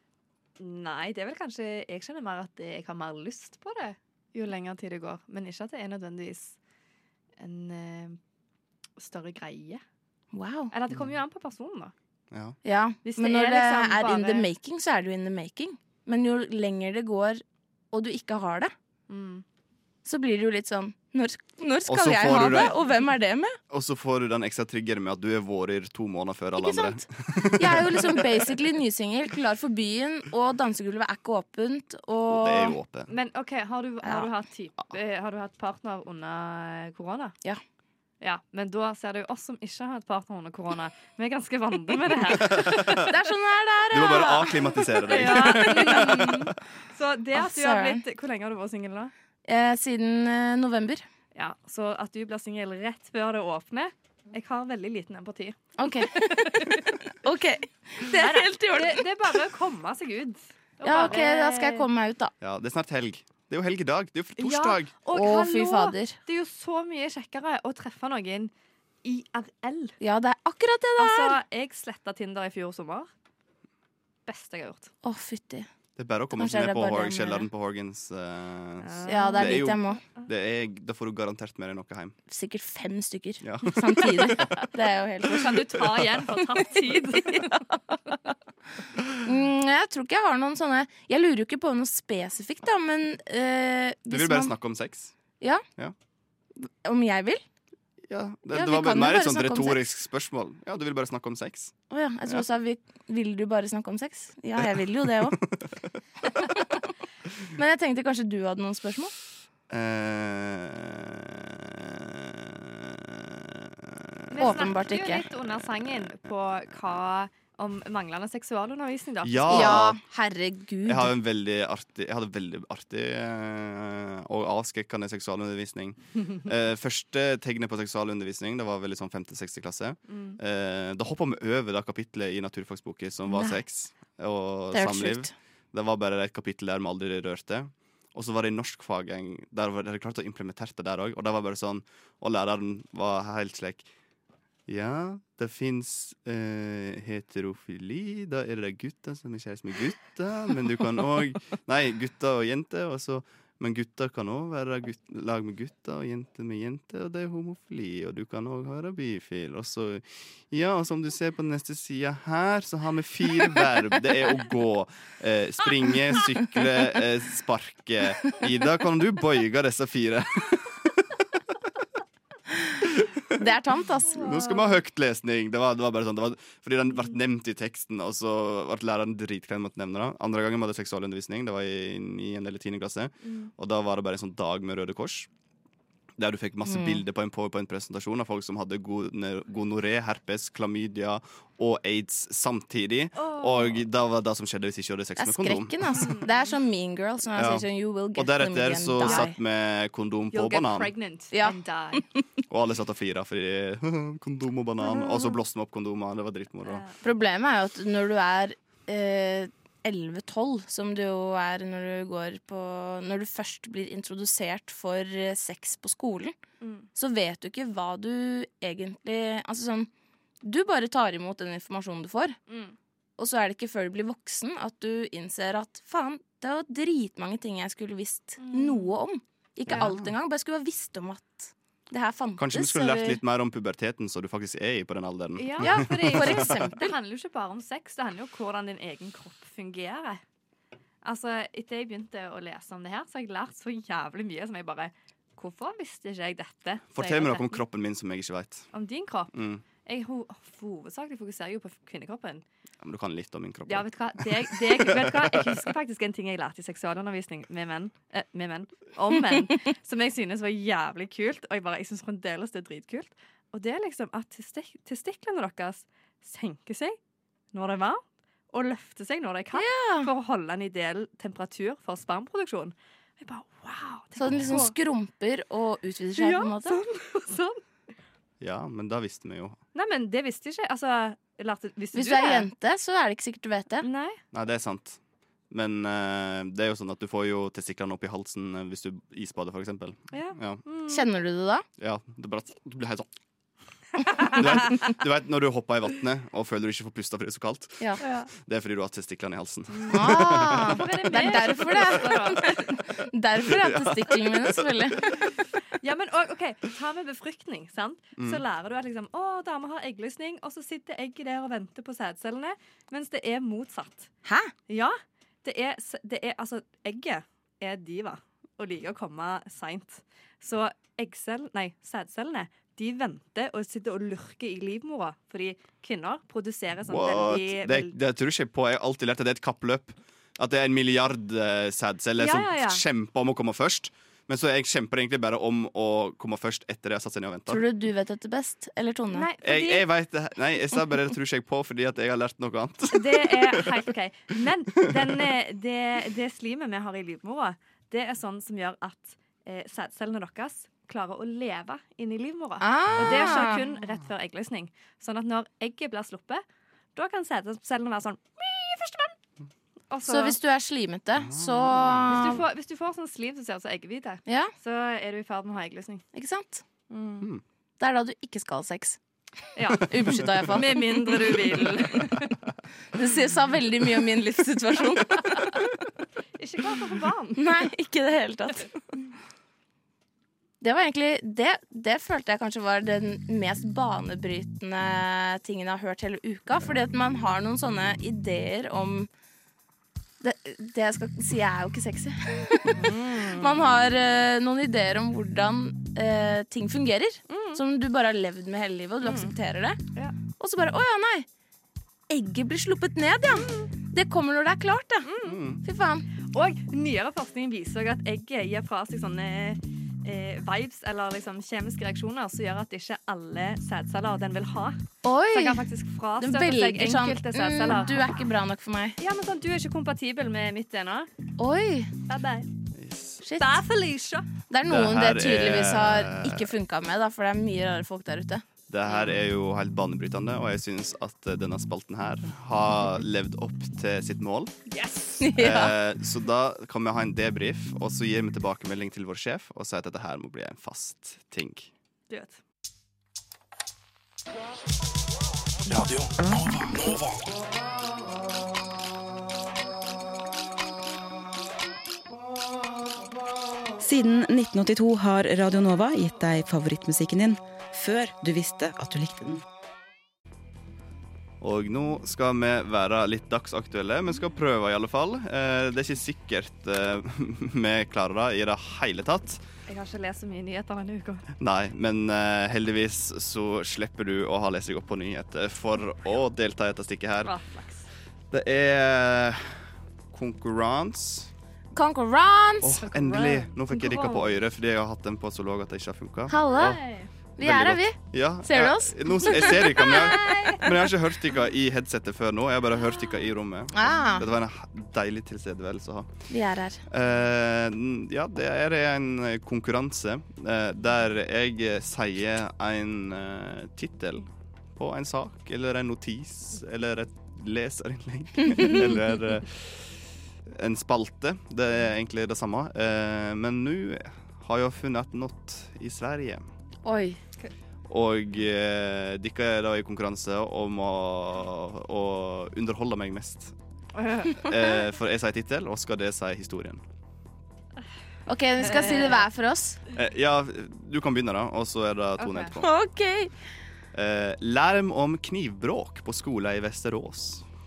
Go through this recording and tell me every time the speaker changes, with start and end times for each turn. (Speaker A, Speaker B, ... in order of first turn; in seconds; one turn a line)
Speaker A: 0.6-6.5
Speaker A: 7.4-8.2
Speaker A: 9.0-9.8
Speaker B: 10.3-10.7
Speaker A: 10.7-11.9
Speaker C: 12.3-12.6
Speaker B: 12.6-18.7
Speaker A: 13.0-14.5
Speaker A: 19.1-19.4
Speaker B: 20.0-23.6
Speaker C: 21.9-22.7
Speaker A: 22.3-22.7
Speaker C: 23.7-28.4
Speaker B: 26.6-32.8
Speaker C: 32.3-33.1
Speaker A: 33.1-37.4
Speaker A: 38.2-43.1
Speaker C: 42.4-43.0
Speaker B: 43.0-44.6
Speaker C: 43.9-46.5
Speaker A: 45.1-49.1
Speaker B: 47.4-48.0
Speaker B: 49.5-51.0
Speaker A: 51.3-56.9
Speaker B: 55.8-59.1
Speaker A: 58.1-61.9
Speaker B: 60.8-62.3
Speaker C: 62.4-64.9
Speaker A: 64.4-68.5
Speaker B: 65.1-66.2
Speaker A: 69.0-69.9
Speaker B: 70.0-71.4
Speaker A: 71.0-73.1
Speaker A: 74.2-74.9
Speaker B: 75.0-75.7
Speaker C: 76.0-82.2
Speaker B: 76.3-77.5
Speaker A: 78.8-80.2
Speaker B: 79.1-80.0
Speaker B: 82.3-85.6
Speaker C: 83.4-84.6
Speaker A: 85.2-87.6
Speaker C: 85.8-86.2
Speaker B: 89.2-94.5
Speaker C: 94.1-95.1
Speaker B: 96.6-97.4
Speaker C: 98.1-101.7
Speaker B: 98.5-99.9
Speaker B: 101.9-105.4
Speaker C: 105.0-105.8
Speaker B: 107.5-109.1
Speaker C: 109.7-114.6
Speaker A: 114.3-119.8
Speaker B: 114.4-115.2
Speaker C: 119.2-120.0
Speaker B: 119.5-121.1
Speaker C: 120.8-143.9
Speaker A: 130.1-130.4
Speaker B: 134.7-135.3
Speaker C: 144.7-171.2
Speaker C: 172.8-173.4
Speaker B: 173.3-174.3
Speaker C: 174.1-185.3
Speaker A: 174.2-174.6
Speaker A: 183.2-183.5
Speaker C: 186.2-196.0
Speaker B: 186.7-187.0
Speaker A: 193.2-193.8
Speaker B: 195.2-199.3
Speaker A: 195.9-196.4
Speaker C: 197.3-200.9
Speaker A: 199.0-199.3
Speaker A: 200.3-202.0
Speaker B: 201.3-201.6
Speaker C: 202.5-206.8
Speaker A: 206.6-207.0
Speaker B: 207.0-216.3
Speaker A: 216.6-216.9
Speaker B: 216.9-219.9
Speaker B: 220.4-222.4
Speaker A: 222.5-222.7
Speaker B: 223.2-233.2
Speaker A: 228.4-228.9
Speaker C: 229.7-230.1
Speaker C: 232.4-236.7
Speaker A: 235.4-240.2
Speaker B: 235.6-236.9
Speaker A: 241.0-247.6
Speaker C: 246.9-248.7
Speaker A: 248.7-249.3
Speaker C: 249.3-249.6
Speaker A: 249.8-252.4
Speaker C: 252.8-255.6
Speaker A: 253.7-267.0
Speaker A: 267.5-274.7
Speaker B: 269.5-270.1
Speaker B: 274.2-276.8
Speaker C: 274.3-274.6
Speaker A: 276.2-277.6
Speaker C: 278.4-279.6
Speaker A: 279.7-282.5
Speaker B: 281.9-283.9
Speaker A: 283.8-284.2
Speaker C: 284.3-285.0
Speaker C: 285.5-290.6
Speaker A: 290.1-291.0
Speaker B: 290.9-291.6
Speaker C: 291.8-293.1
Speaker C: 294.3-300.8
Speaker A: 298.0-298.3
Speaker A: 299.7-302.7
Speaker B: 299.9-305.0
Speaker C: 303.4-305.1
Speaker A: 305.8-314.1
Speaker C: 308.2-308.4
Speaker B: 314.2-314.5
Speaker A: 314.7-327.9
Speaker C: 326.9-337.6
Speaker A: 332.2-332.8
Speaker B: 337.5-339.3
Speaker A: 339.1-339.9
Speaker C: 339.4-343.8
Speaker A: 342.9-356.4
Speaker B: 352.6-353.6
Speaker A: 356.9-359.1
Speaker A: 359.9-360.4
Speaker B: 360.1-362.4
Speaker C: 361.2-362.2
Speaker A: 362.1-366.0
Speaker B: 364.3-364.5
Speaker B: 366.1-366.6
Speaker A: 366.9-367.3
Speaker B: 367.8-369.0
Speaker A: 369.6-372.4
Speaker B: 369.7-371.0
Speaker B: 372.9-375.6
Speaker A: 376.4-377.7
Speaker B: 377.4-378.7
Speaker B: 380.6-389.1
Speaker B: 390.2-399.8
Speaker A: 392.7-393.7
Speaker A: 397.3-397.6
Speaker A: 399.0-399.3
Speaker B: 400.4-401.3
Speaker B: 402.1-405.1
Speaker A: 403.3-403.7
Speaker A: 405.0-405.4
Speaker C: 405.2-405.6
Speaker B: 405.6-406.1
Speaker A: 406.3-414.8
Speaker B: 415.0-415.6
Speaker A: 415.3-418.1
Speaker B: 416.2-419.0
Speaker A: 419.0-421.1
Speaker B: 421.4-421.9
Speaker A: 422.1-422.5
Speaker C: 422.8-423.2
Speaker B: 423.2-423.6
Speaker A: 423.4-424.3
Speaker B: 424.5-428.4
Speaker C: 424.6-426.5
Speaker C: 428.7-434.6
Speaker A: 428.9-429.1
Speaker A: 434.7-435.2
Speaker B: 435.2-435.7
Speaker C: 435.3-441.7
Speaker A: 442.1-442.4
Speaker D: 446.1-447.0
Speaker D: 453.8-459.4
Speaker C: 461.4-469.4
Speaker A: 469.7-471.3
Speaker C: 471.4-477.3
Speaker A: 477.2-477.9
Speaker C: 478.3-479.6
Speaker C: 480.1-481.3
Speaker B: 481.7-482.8
Speaker C: 482.6-486.8
Speaker A: 482.9-484.4
Speaker B: 486.3-486.8
Speaker A: 486.5-487.1
Speaker B: 487.4-490.2
Speaker C: 487.4-496.1
Speaker A: 489.6-490.8
Speaker B: 493.7-494.2
Speaker B: 496.3-496.8
Speaker C: 496.9-516.4
Speaker B: 516.8-517.2
Speaker C: 517.9-523.5
Speaker A: 524.0-524.5
Speaker C: 524.3-526.8
Speaker B: 528.3-529.8
Speaker A: 528.6-529.2
Speaker C: 529.9-532.7
Speaker A: 532.2-532.5
Speaker B: 532.6-533.3
Speaker C: 533.9-537.4